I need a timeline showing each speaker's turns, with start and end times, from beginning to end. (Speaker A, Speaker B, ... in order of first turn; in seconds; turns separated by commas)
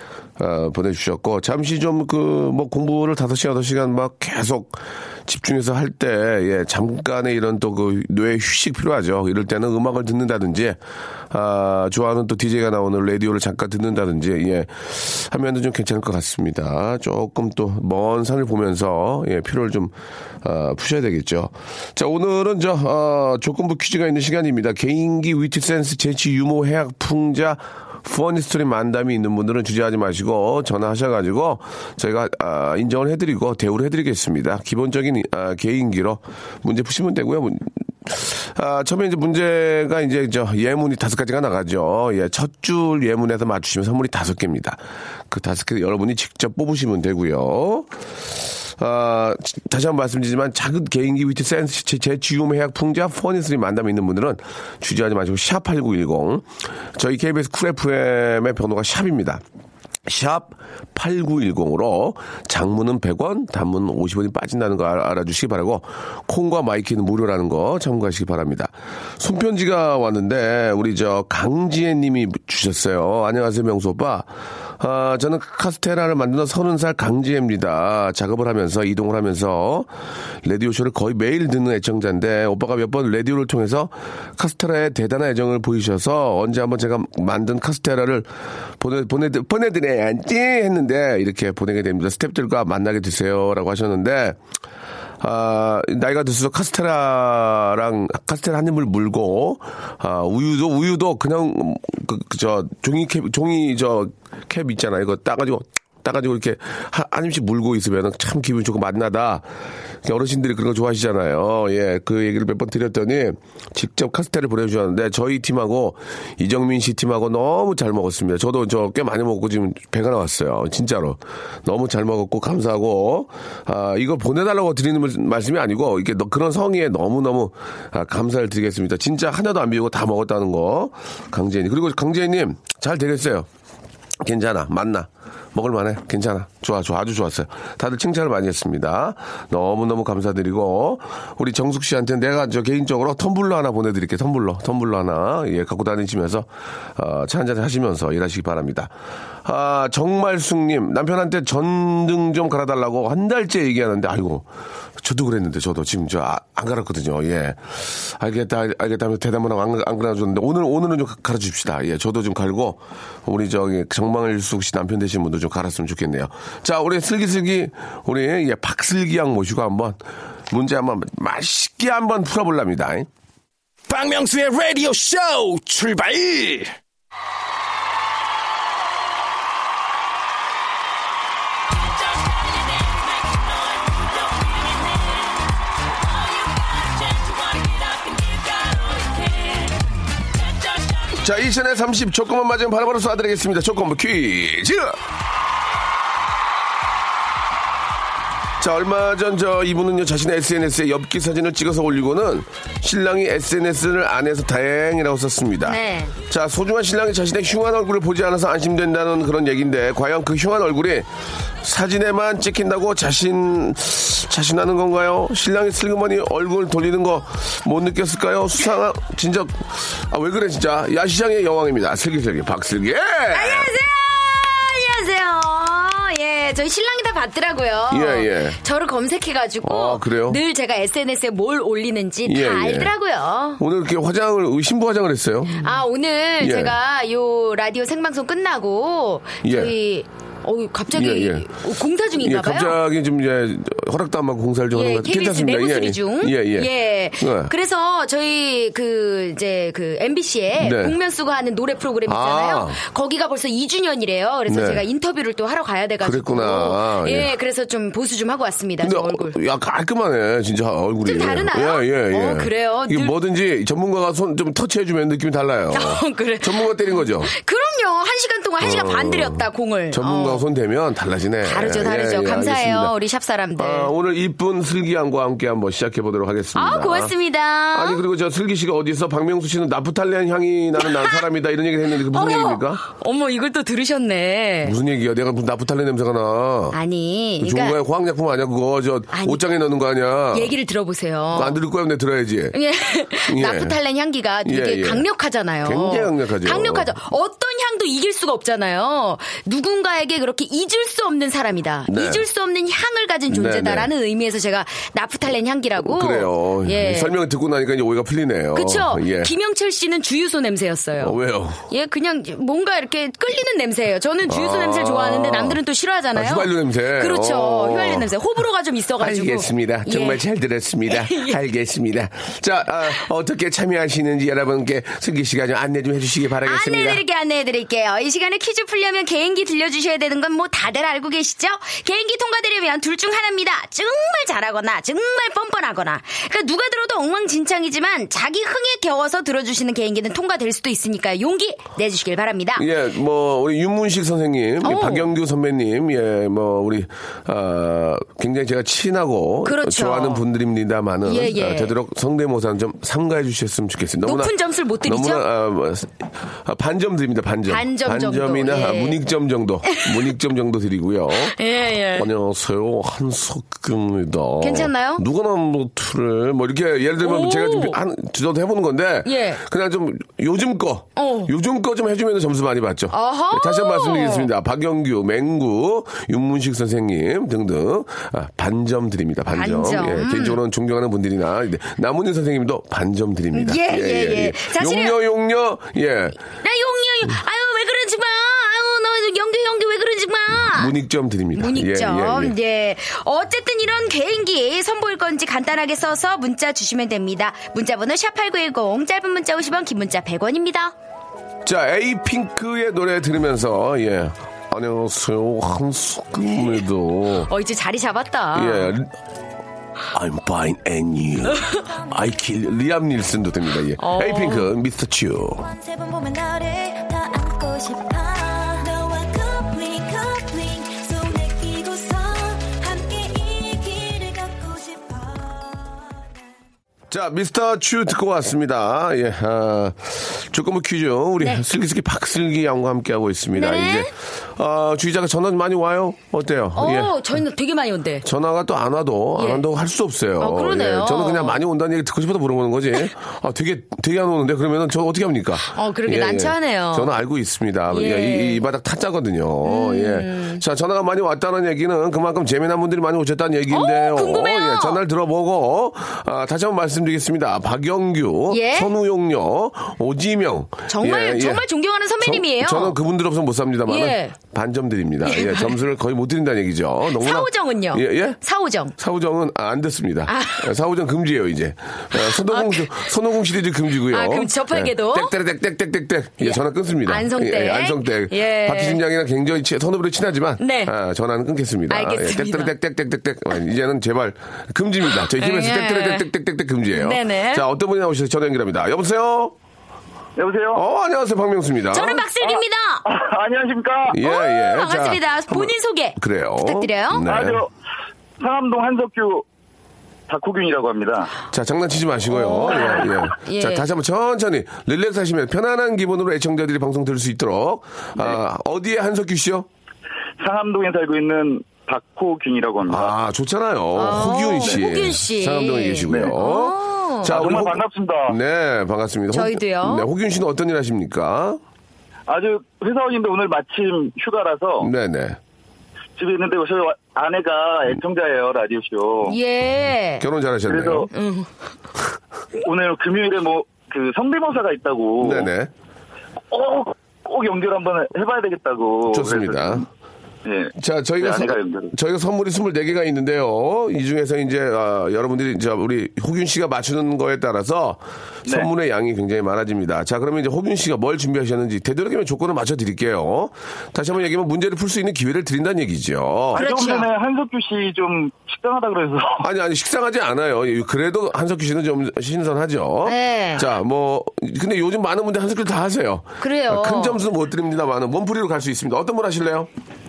Speaker A: 0.4-10.8, Speaker A: 11.3-47.9, Speaker A: 48.8-59.4, Speaker A: 60.1-79.9, Speaker A: 80.4-94.4, Speaker A: 95.2-109.5, Speaker A: 110.0-133.5, Speaker A: 134.2-148.9, Speaker A: 149.4-154.5, Speaker A: 155.0-173.1, Speaker B: 173.9-176.8, Speaker C: 182.1-185.3, Speaker C: 186.1-189.8, Speaker C: 190.4-191.0, Speaker A: 191.1-195.0, Speaker A: 198.6-211.1, Speaker D: 205.6-206.2, Speaker A: 211.6-223.7, Speaker D: 223.3-233.6, Speaker A: 227.9-228.6, Speaker A: 229.6-230.4, Speaker A: 232.2-232.9, Speaker A: 233.6-235.7, Speaker D: 235.6-242.8, Speaker A: 236.4-236.8, Speaker A: 239.4-239.7, Speaker A: 240.9-241.5, Speaker A: 242.2-247.5, Speaker D: 244.7-259.4, Speaker A: 250.6-251.0, Speaker A: 252.1-252.8, Speaker A: 254.5-254.8, Speaker A: 256.0-257.3, Speaker A: 258.8-267.3, Speaker D: 261.0-263.1, Speaker D: 265.7-270.4, Speaker A: 268.6-272.9, Speaker D: 271.4-273.9, Speaker A: 273.6-277.1, Speaker D: 276.6-278.0, Speaker A: 277.7-282.8, Speaker D: 280.8-281.2, Speaker D: 282.1-284.8, Speaker A: 284.6-286.8, Speaker D: 286.7-287.8, Speaker A: 287.4-290.5, Speaker D: 289.1-289.4, Speaker D: 290.3-291.6, Speaker A: 291.3-292.6, Speaker D: 292.5-307.1, Speaker A: 293.3-293.8, Speaker A: 294.4-295.1, Speaker A: 295.6-296.9, Speaker A: 301.9-302.2, Speaker A: 303.3-303.9, Speaker A: 305.8-309.3, Speaker D: 308.6-311.2, Speaker A: 311.0-311.6, Speaker D: 311.7-320.2, Speaker A: 314.3-315.6, Speaker A: 316.1-318.1, Speaker A: 319.0-327.0, Speaker D: 320.9-321.4, Speaker D: 326.4-342.7, Speaker A: 342.6-361.4, Speaker D: 344.6-345.1, Speaker D: 349.4-350.2, Speaker D: 351.1-351.8, Speaker D: 354.0-355.2, Speaker D: 357.5-359.0, Speaker D: 359.7-360.0, Speaker D: 361.3-362.1, Speaker A: 361.9-386.2, Speaker D: 364.4-365.0, Speaker D: 367.0-367.8, Speaker D: 369.1-369.4, Speaker D: 371.0-371.3, Speaker D: 372.9-374.3, Speaker D: 379.3-380.4, Speaker D: 383.3-385.0, Speaker D: 386.4-390.7, Speaker A: 390.3-392.4, Speaker D: 391.4-400.7, Speaker A: 401.4-407.3, Speaker D: 407.3-408.7, Speaker A: 408.3-408.9, Speaker A: 409.9-415.5, Speaker C: 411.5-411.9, Speaker D: 413.8-414.5, Speaker C: 415.4-426.3, Speaker A: 426.9-437.1, Speaker D: 433.3-433.9, Speaker D: 436.6-438.1, Speaker A: 438.0-461.4, Speaker D: 439.2-439.4, Speaker D: 440.2-441.4, Speaker D: 445.4-446.9, Speaker D: 447.7-448.4, Speaker D: 449.4-450.4, Speaker D: 453.5-454.8, Speaker D: 458.3-458.7, Speaker D: 460.7-462.8, Speaker A: 462.0-468.2, Speaker D: 463.7-464.1, Speaker D: 465.0-465.6, Speaker D: 466.9-468.8, Speaker A: 468.8-489.4, Speaker D: 470.1-470.5, Speaker D: 471.9-472.9, Speaker D: 473.9-475.1, Speaker D: 476.2-478.8, Speaker D: 480.4-480.7, Speaker D: 481.7-482.5, Speaker D: 485.1-486.1, Speaker D: 486.7-487.5, Speaker E: 490.2-490.6, Speaker A: 490.6-492.1, Speaker D: 491.7-492.9, Speaker E: 492.2-494.0, Speaker A: 493.9-497.4, Speaker D: 494.0-497.1, Speaker E: 497.1-497.5, Speaker E: 498.2-499.2, Speaker E: 500.1-501.1, Speaker A: 501.3-509.5, Speaker D: 502.1-503.7, Speaker E: 510.2-512.9, Speaker A: 512.7-521.4, Speaker D: 513.8-517.1, Speaker E: 517.1-518.2, Speaker D: 519.1-519.9, Speaker E: 522.1-524.7, Speaker A: 524.6-525.2, Speaker E: 526.0-529.2, Speaker D: 529.1-530.1, Speaker A: 530.0-530.9, Speaker E: 530.5-530.9, Speaker D: 530.9-531.3, Speaker E: 532.4-535.3, Speaker A: 535.0-535.5, Speaker E: 536.3-539.6, Speaker A: 538.9-539.7, Speaker E: 540.2-541.7, Speaker A: 540.6-556.4, Speaker E: 556.3-559.2, Speaker D: 556.4-556.9, Speaker A: 559.2-569.5, Speaker D: 562.9-563.5, Speaker D: 566.2-567.0